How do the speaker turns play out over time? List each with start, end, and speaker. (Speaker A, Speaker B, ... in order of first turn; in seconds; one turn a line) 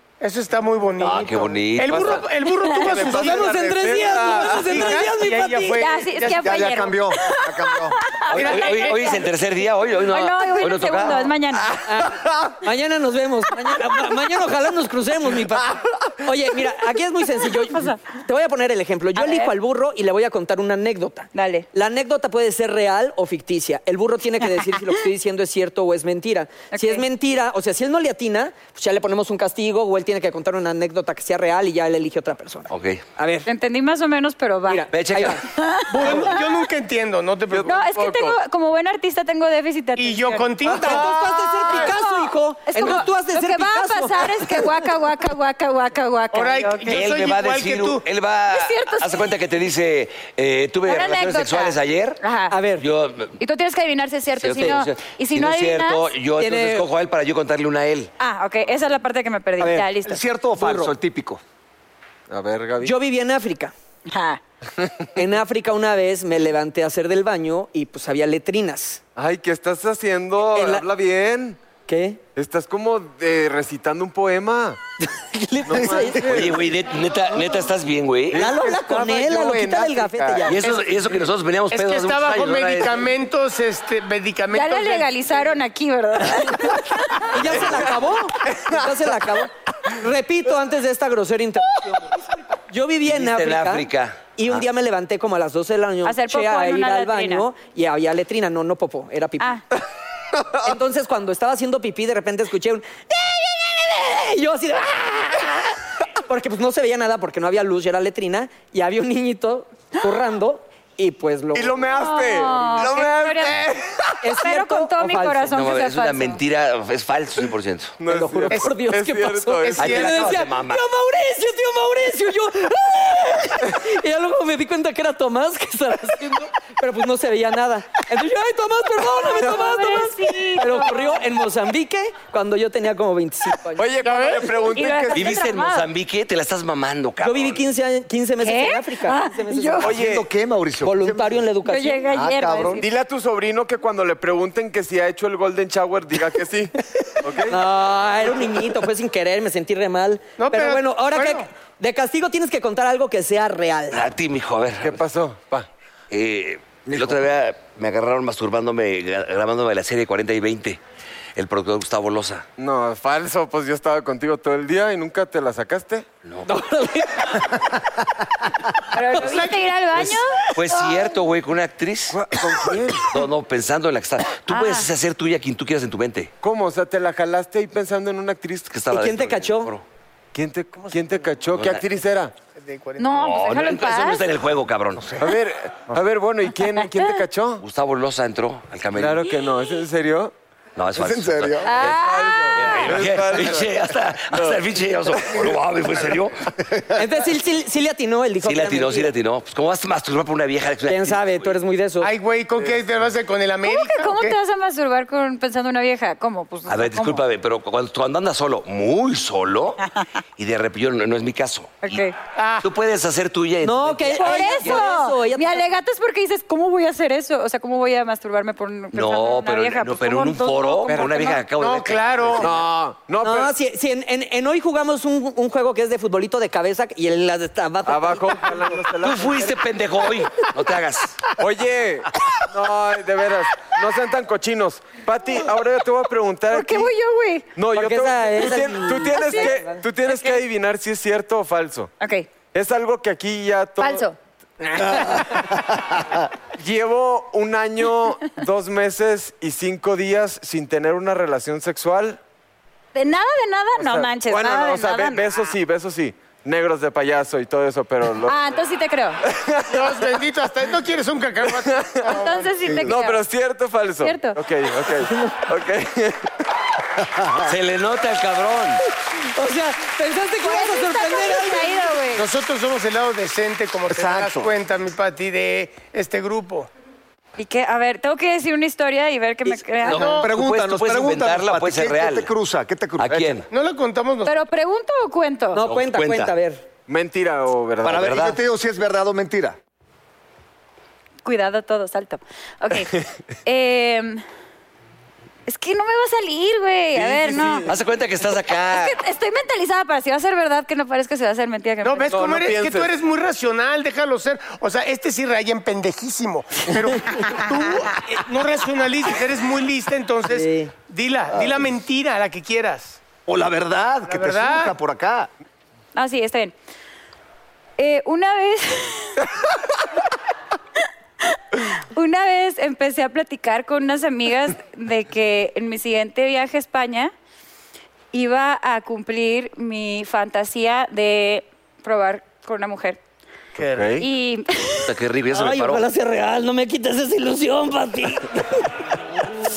Speaker A: 0.2-3.5
Speaker B: 1.0-2.2
Speaker C: 2.8-4.8
Speaker D: 2.9-5.8
Speaker A: 4.4-6.5
Speaker E: 5.8-9.3
Speaker F: 6.4-8.0
Speaker B: 8.3-11.3
Speaker A: 8.3-9.1
Speaker E: 10.1-11.7
Speaker D: 11.8-33.5
Speaker E: 17.6-18.0
Speaker E: 19.1-19.5
Speaker E: 21.3-21.6
Speaker E: 26.7-27.0
Speaker B: 32.7-33.0
Speaker E: 33.5-34.9
Speaker D: 34.7-35.4
Speaker B: 34.9-35.4
Speaker E: 35.4-36.6
Speaker A: 35.9-37.8
Speaker C: 37.5-38.4
Speaker E: 37.6-47.1
Speaker A: 40.0-41.1
Speaker D: 40.7-44.6
Speaker A: 46.3-48.0
Speaker B: 46.9-52.2
Speaker E: 48.5-49.3
Speaker E: 50.9-52.5
Speaker D: 52.5-52.8
Speaker B: 52.8-53.4
Speaker E: 53.4-56.0
Speaker B: 54.4-58.1
Speaker D: 56.4-56.9
Speaker E: 58.2-60.2
Speaker F: 60.0-61.4
Speaker D: 60.6-60.9
Speaker C: 62.3-62.9
Speaker D: 62.8-63.7
Speaker E: 64.1-64.4
Speaker D: 65.1-69.0
Speaker C: 69.2-71.6
Speaker D: 70.5-70.9
Speaker D: 71.9-72.2
Speaker C: 72.3-74.8
Speaker D: 75.0-76.4
Speaker C: 75.7-76.6
Speaker F: 75.8-76.4
Speaker B: 76.2-78.5
Speaker C: 78.3-80.4
Speaker D: 78.3-80.6
Speaker F: 79.5-80.4
Speaker B: 80.5-83.1
Speaker A: 81.7-85.1
Speaker E: 84.5-87.5
Speaker D: 87.2-99.5
Speaker C: 87.6-89.3
Speaker B: 93.0-94.6
Speaker E: 96.0-97.5
Speaker D: 100.6-111.8
Speaker C: 111.5-114.1
Speaker E: 111.8-113.6
Speaker D: 114.2-115.5
Speaker E: 114.4-116.4
Speaker B: 115.5-118.0
Speaker C: 118.0-120.0
Speaker D: 118.0-133.8
Speaker A: 119.6-120.4
Speaker B: 119.8-120.8
Speaker E: 129.1-131.3
Speaker C: 133.8-135.4
Speaker A: 134.0-134.6
Speaker E: 134.6-135.9
Speaker B: 135.1-137.6
Speaker D: 137.2-139.9
Speaker E: 138.4-140.0
Speaker C: 139.8-140.3
Speaker F: 139.8-141.5
Speaker D: 140.8-142.1
Speaker E: 141.6-142.9
Speaker F: 142.1-142.8
Speaker C: 142.8-147.6
Speaker D: 147.4-154.0
Speaker A: 150.4-151.5
Speaker B: 153.9-155.0
Speaker C: 154.8-155.7
Speaker B: 156.1-160.8
Speaker B: 161.3-162.4
Speaker C: 162.6-166.1
Speaker B: 166.2-166.5
Speaker D: 166.4-167.6
Speaker E: 168.9-171.1
Speaker B: 170.5-172.2
Speaker C: 172.1-173.1
Speaker B: 173.1-176.3
Speaker E: 174.5-174.9
Speaker C: 176.4-178.7
Speaker B: 178.7-179.8
Speaker D: 178.9-179.7
Speaker C: 180.3-182.3
Speaker A: 180.8-181.2
Speaker B: 181.5-181.8
Speaker A: 182.5-183.1
Speaker E: 183.0-184.2
Speaker B: 183.1-185.2
Speaker C: 185.2-187.6
Speaker E: 186.8-187.1
Speaker B: 187.6-189.2
Speaker C: 188.9-190.3
Speaker B: 190.8-196.4
Speaker C: 190.9-195.5
Speaker E: 191.6-193.0
Speaker D: 196.9-199.1
Speaker B: 198.4-201.5
Speaker D: 200.9-202.1
Speaker A: 202.0-204.3
Speaker E: 203.6-207.2
Speaker B: 206.7-209.8
Speaker B: 210.4-212.0
Speaker E: 211.8-212.2
Speaker A: 212.3-212.7
Speaker B: 212.6-214.8
Speaker D: 213.6-215.7
Speaker E: 214.1-221.4
Speaker B: 218.9-222.5
Speaker A: 221.5-222.5
Speaker C: 222.4-223.5
Speaker D: 223.2-228.8
Speaker C: 227.8-229.6
Speaker B: 229.0-231.2
Speaker C: 231.4-236.9
Speaker E: 236.5-237.5
Speaker C: 237.6-241.9
Speaker D: 237.7-239.8
Speaker E: 238.9-240.4
Speaker E: 242.0-242.3
Speaker C: 242.5-244.1
Speaker E: 243.8-244.2
Speaker E: 244.8-245.2
Speaker C: 246.6-252.2
Speaker E: 252.9-255.5
Speaker C: 253.8-258.3
Speaker E: 258.2-259.2
Speaker C: 259.2-259.9
Speaker A: 259.7-262.5
Speaker C: 261.6-262.1
Speaker E: 262.1-263.2
Speaker C: 262.8-266.3
Speaker E: 264.0-264.4
Speaker B: 267.4-268.8
Speaker D: 269.1-272.0
Speaker E: 270.4-272.3
Speaker A: 272.1-276.7
Speaker F: 273.9-274.5
Speaker E: 277.4-280.2
Speaker B: 279.8-282.3
Speaker A: 279.9-280.3
Speaker F: 279.9-283.4
Speaker B: 283.0-283.5
Speaker A: 283.5-284.4
Speaker E: 284.2-285.6
Speaker D: 285.5-286.6
Speaker B: 285.6-286.3
Speaker C: 286.9-288.2
Speaker F: 287.8-289.6
Speaker B: 287.9-288.4
Speaker E: 291.2-294.2
Speaker E: 295.5-297.7
Speaker C: 296.9-297.6
Speaker B: 297.6-299.0
Speaker E: 298.5-302.2
Speaker A: 301.8-313.0
Speaker C: 302.1-302.9
Speaker D: 310.3-310.7
Speaker F: 313.2-315.3
Speaker A: 314.1-314.7
Speaker E: 315.9-316.5
Speaker E: 317.8-319.2
Speaker E: 321.2-327.1
Speaker E: 328.1-333.0
Speaker A: 333.6-333.9
Speaker C: 333.6-334.1
Speaker E: 334.0-334.9
Speaker B: 334.9-335.9
Speaker D: 335.3-339.2